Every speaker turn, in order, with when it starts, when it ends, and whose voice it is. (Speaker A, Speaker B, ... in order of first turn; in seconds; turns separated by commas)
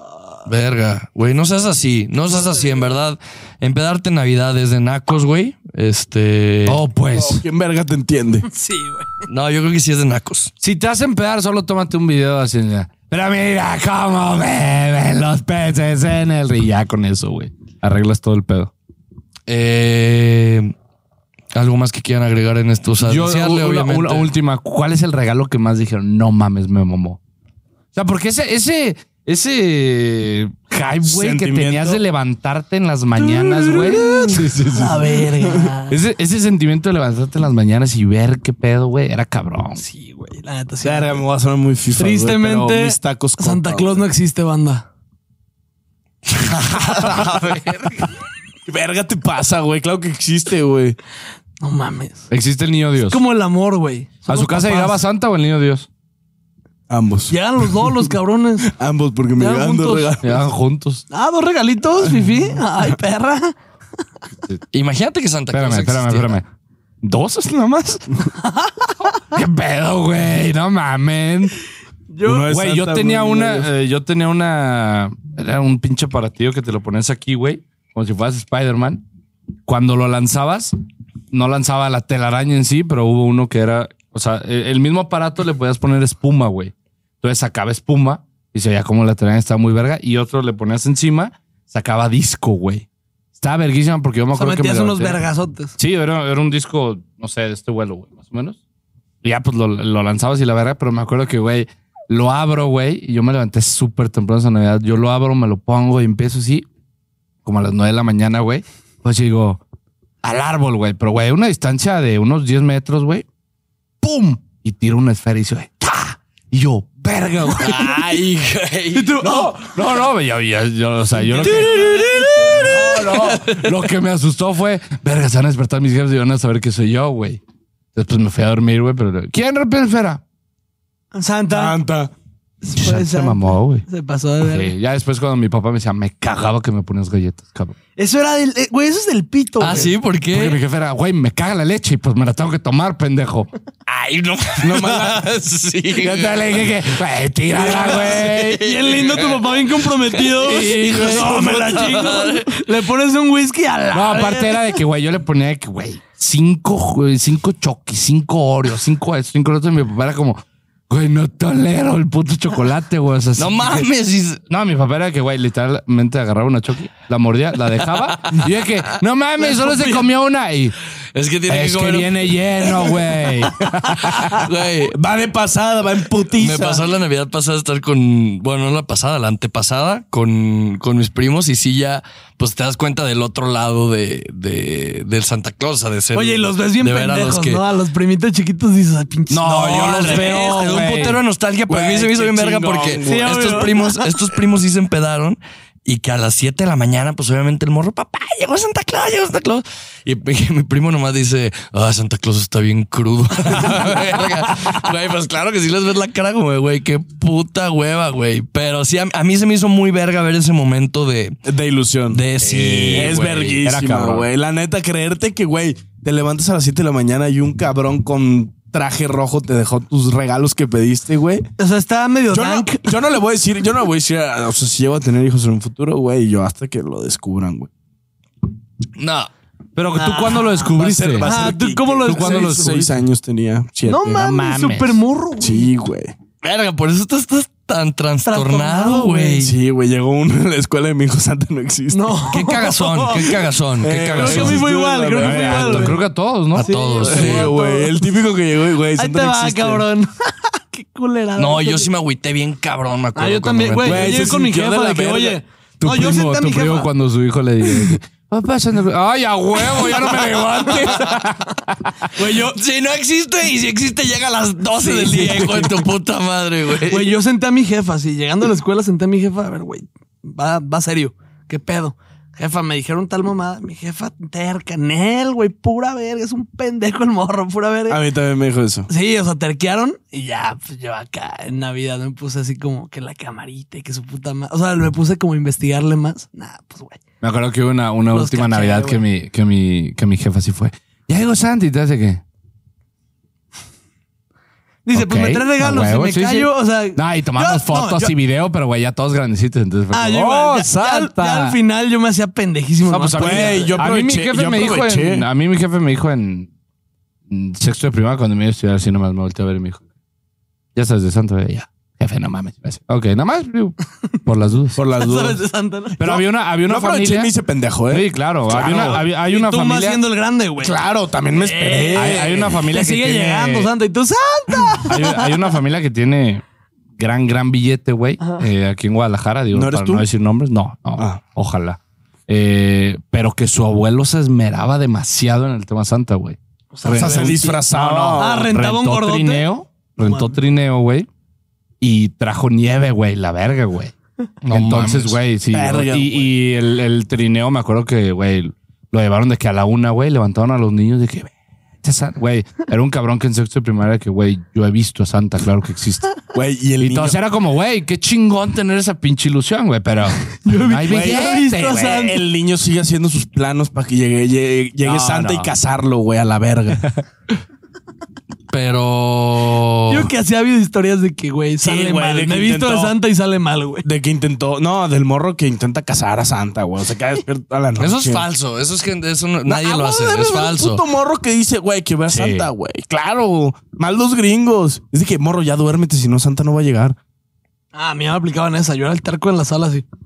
Speaker A: 0.5-6.8, Speaker B: 6.7-7.4, Speaker C: 7.2-8.5, Speaker D: 8.5-9.3, Speaker A: 9.3-10.5, Speaker B: 10.6-18.7, Speaker A: 19.5-20.7, Speaker A: 21.5-24.3, Speaker B: 23.0-27.2, Speaker B: 27.9-35.2, Speaker C: 31.1-32.0, Speaker D: 33.4-36.0, Speaker C: 35.1-35.7, Speaker B: 35.9-39.8, Speaker D: 39.8-41.2, Speaker C: 40.8-44.0, Speaker D: 42.0-44.9, Speaker A: 46.3-47.9, Speaker C: 48.7-51.0, Speaker D: 51.6-52.3, Speaker B: 52.3-53.2, Speaker D: 53.1-55.0, Speaker B: 54.3-55.9, Speaker C: 56.9-58.0, Speaker D: 57.3-58.7, Speaker C: 58.7-60.4, Speaker D: 59.4-60.1, Speaker B: 60.2-61.0, Speaker D: 61.1-63.5, Speaker A: 64.7-66.4, Speaker B: 65.5-66.5, Speaker B: 67.0-68.0, Speaker D: 68.4-68.9, Speaker B: 69.3-71.6, Speaker D: 72.1-72.5, Speaker C: 72.2-73.7, Speaker B: 72.5-79.0, Speaker B: 79.7-80.7, Speaker B: 81.3-95.2, Speaker D: 94.3-95.8, Speaker B: 95.8-98.6, Speaker B: 99.2-106.7, Speaker B: 107.5-109.6, Speaker B: 110.2-113.2, Speaker B: 114.0-118.0, Speaker A: 117.6-119.2, Speaker D: 118.9-119.7, Speaker B: 119.2-127.4, Speaker A: 121.4-123.7, Speaker B: 128.0-130.2, Speaker D: 131.1-131.8, Speaker C: 131.5-132.1, Speaker D: 132.6-134.7, Speaker B: 132.8-133.8, Speaker B: 134.4-137.8, Speaker D: 138.0-139.9, Speaker A: 139.6-140.6, Speaker B: 139.7-143.5, Speaker A: 143.9-146.6, Speaker C: 144.6-145.2, Speaker B: 146.0-148.6, Speaker A: 147.6-152.7, Speaker D: 148.5-154.8, Speaker C: 151.1-151.5, Speaker B: 153.9-163.9, Speaker A: 163.4-164.4, Speaker B: 164.5-170.8, Speaker A: 167.9-168.5, Speaker D: 169.4-170.0, Speaker A: 171.1-174.9, Speaker B: 171.5-174.5, Speaker C: 174.9-176.8, Speaker A: 176.3-187.7, Speaker D: 186.1-190.9, Speaker B: 189.3-191.2, Speaker A: 189.5-211.4, Speaker C: 191.7-193.7, Speaker D: 193.0-194.2, Speaker C: 211.5-212.2, Speaker A: 212.1-213.6, Speaker B: 212.4-214.3, Speaker C: 212.9-221.5, Speaker D: 221.6-222.9, Speaker C: 222.3-227.7, Speaker A: 229.0-229.3, Speaker B: 229.8-231.5, Speaker D: 229.9-232.7, Speaker C: 230.7-234.2, Speaker B: 232.1-233.1, Speaker D: 233.9-235.7, Speaker B: 234.2-235.0, Speaker C: 235.4-236.1, Speaker A: 236.4-239.5, Speaker D: 238.2-239.5, Speaker C: 239.4-242.2, Speaker D: 241.9-243.1, Speaker A: 242.3-244.6, Speaker C: 243.1-246.0, Speaker D: 244.1-248.0, Speaker B: 245.2-246.7, Speaker A: 246.6-247.6, Speaker C: 247.0-249.9, Speaker D: 249.0-251.9, Speaker A: 251.4-254.4, Speaker D: 253.2-256.9, Speaker C: 253.8-255.4, Speaker B: 255.8-262.1, Speaker D: 259.7-261.2, Speaker A: 262.2-267.1, Speaker D: 264.8-265.8, Speaker D: 266.9-278.0, Speaker C: 277.9-278.9, Speaker D: 278.9-287.0, Speaker B: 287.2-292.2, Speaker D: 288.1-289.0, Speaker D: 294.9-298.1, Speaker B: 294.9-301.6, Speaker D: 299.9-303.9, Speaker B: 302.9-306.5, Speaker C: 303.2-305.3, Speaker B: 307.3-309.8, Speaker B: 310.8-314.8, Speaker C: 314.8-315.4, Speaker D: 314.9-316.1, Speaker B: 316.0-317.3, Speaker C: 316.1-319.0, Speaker B: 317.9-320.0, Speaker D: 318.6-320.8, Speaker C: 320.6-322.6, Speaker D: 321.3-325.2, Speaker B: 321.9-323.7, Speaker B: 324.9-326.4, Speaker B: 327.0-341.1, Speaker D: 328.2-328.5, Speaker C: 329.5-330.1, Speaker D: 336.7-337.6, Speaker C: 336.9-338.5, Speaker D: 338.2-339.5, Speaker D: 340.0-340.4, Speaker B: 341.8-343.9, Speaker A: 344.4-345.2, Speaker B: 344.5-356.1, Speaker C: 345.5-346.3, Speaker C: 356.3-357.2, Speaker B: 356.8-362.1, Speaker D: 360.4-362.2, Speaker C: 360.9-361.3, Speaker C: 362.0-366.8, Speaker B: 364.8-365.5, Speaker A: 368.5-370.1, Speaker D: 369.9-373.9, Speaker C: 371.6-373.0, Speaker C: 373.8-378.2, Speaker A: 377.8-380.8, Speaker D: 379.5-380.2, Speaker C: 380.0-387.0, Speaker B: 382.1-382.5, Speaker D: 387.7-389.9